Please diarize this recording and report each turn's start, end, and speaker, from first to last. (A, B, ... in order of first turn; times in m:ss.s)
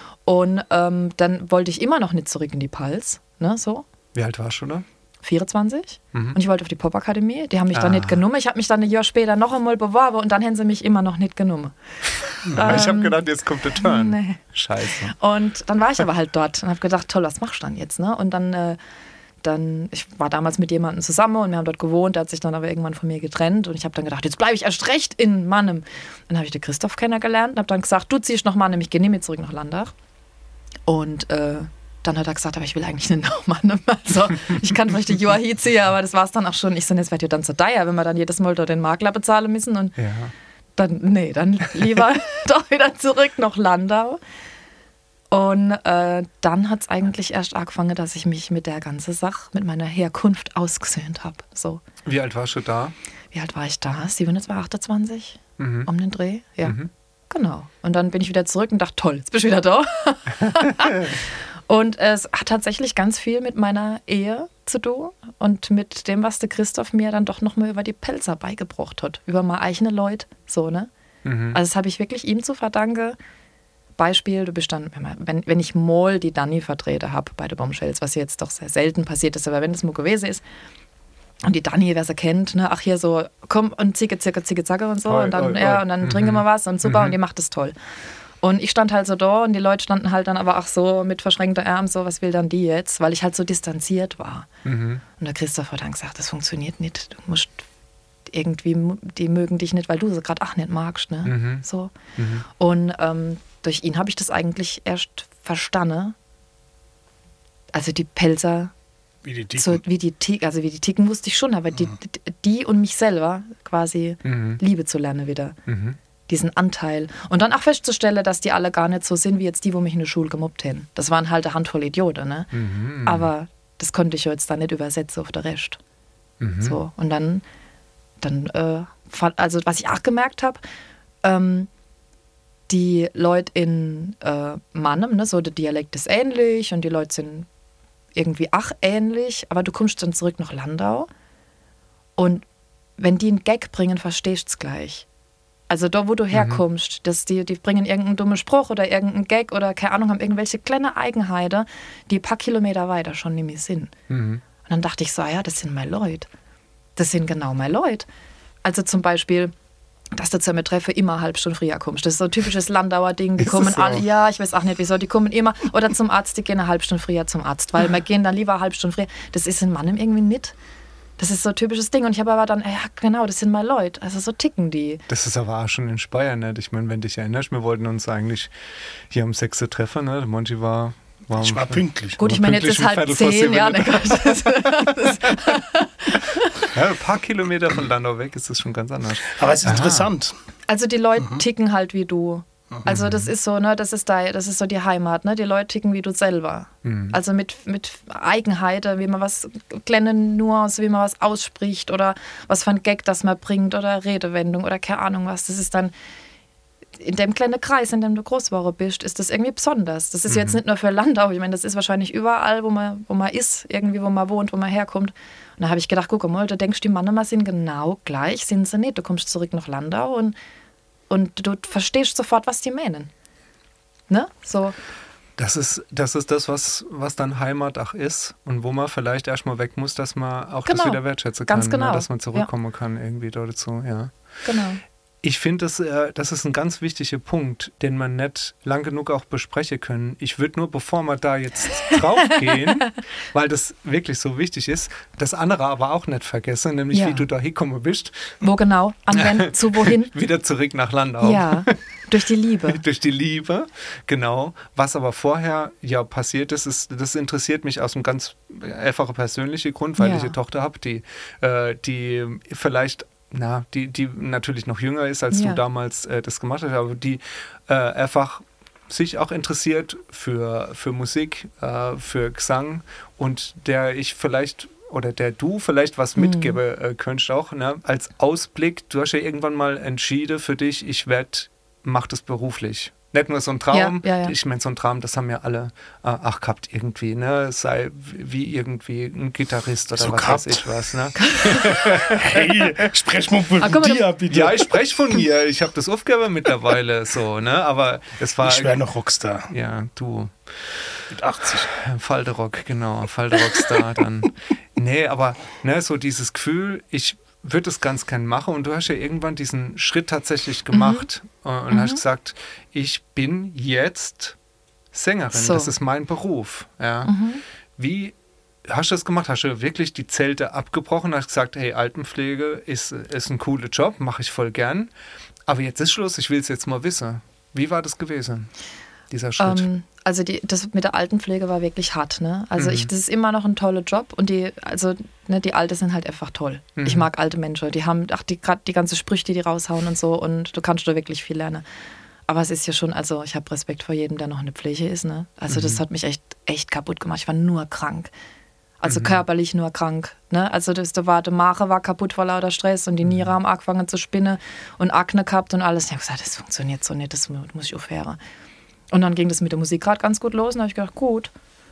0:00.3-0:03.9 A
0:04.1-0:04.8 B
0:05.2-0:11.7 A
0:07.7-0:08.2 B
0:12.3-0:13.2 A
0:12.5-0:15.2 B
0:13.8-0:14.4 A
0:15.0-0:18.8 A
0:19.4-0:29.9 A
0:30.9-0:40.0 A
0:40.0-0:40.3 B
0:40.8-0:44.2 A
0:45.3-0:51.8 A
0:52.0-0:52.9 B
0:53.3-0:56.8 A
0:55.6-0:55.9 B
0:56.6-0:56.9 B
0:57.3-1:10.9 A
1:11.2-1:11.6 B
1:11.5-1:13.2 A
1:14.0-1:20.4 A
1:21.4-1:27.8 A
1:25.1-1:27.2 B
1:28.4-1:34.5 A
1:34.6-1:35.0 B
1:35.2-1:37.6 A
1:38.3-1:41.9 A
1:41.2-1:41.6 B
1:42.2-1:42.5 B
1:42.6-1:46.2 A
1:47.7-1:48.7 A
1:49.2-1:49.8 C
1:49.6-1:55.6 A
1:54.2-1:54.6 B
1:55.7-1:56.0 B
1:56.3-2:02.5 A
2:02.5-2:03.3 B
2:03.0-2:05.8 A
2:06.4-2:06.8 B
2:06.6-2:07.4 A
2:08.2-2:10.6 A
2:11.2-2:11.7 A
2:12.7-2:17.5 A
2:18.2-2:21.1 A
2:22.2-2:22.4 A
2:23.0-2:25.1 A
2:25.7-2:33.9 A
2:26.3-2:26.6 B
2:34.1-2:34.4 B
2:34.6-2:36.3 A
2:37.0-2:38.1 A
2:38.6-2:39.5 A
2:40.1-2:50.6 A
2:43.4-2:44.0 B
2:51.2-2:55.0 A
2:55.1-2:58.5 B
2:59.1-3:05.4 B
3:01.3-3:02.2 C
3:02.2-3:06.7 A
3:06.6-3:10.1 B
3:09.3-3:10.4 C
3:10.7-3:25.9 A
3:12.9-3:13.3 B
3:16.8-3:17.2 B
3:27.0-3:40.4 A
3:30.3-3:30.6 B
3:41.1-3:43.1 A
3:44.1-3:44.8 A
3:45.4-3:54.1 B
3:50.7-3:52.5 A
3:54.4-3:54.8 A
3:55.2-4:08.4 B
4:02.6-4:02.9 A
4:06.9-4:07.3 A
4:08.4-4:10.1 A
4:09.2-4:11.7 B
4:11.2-4:12.8 A
4:12.7-4:52.9 B
4:20.0-4:20.4 A
4:25.3-4:25.6 A
4:36.2-4:36.6 A
4:43.7-4:44.3 A
4:50.0-4:50.8 C
4:51.2-4:51.8 A
4:52.0-4:54.7 C
4:53.6-4:54.1 A
4:54.3-4:58.8 B
4:58.4-4:59.5 C
4:59.5-5:00.8 B
5:01.1-5:01.7 C
5:01.7-5:14.4 B
5:10.7-5:11.1 A
5:11.7-5:12.0 A
5:14.9-5:17.1 B
5:15.3-5:15.7 A
5:17.0-5:17.4 A
5:17.8-5:18.2 B
5:18.7-5:24.9 B
5:25.5-5:28.5 B
5:29.1-5:29.7 B
5:29.4-5:41.6 A
5:32.6-5:32.9 B
5:36.8-5:37.1 B
5:42.3-5:48.1 A
5:45.5-5:45.8 B
5:48.8-5:58.2 A
5:48.8-5:49.2 B
5:53.0-5:53.3 B
5:58.9-6:01.3 A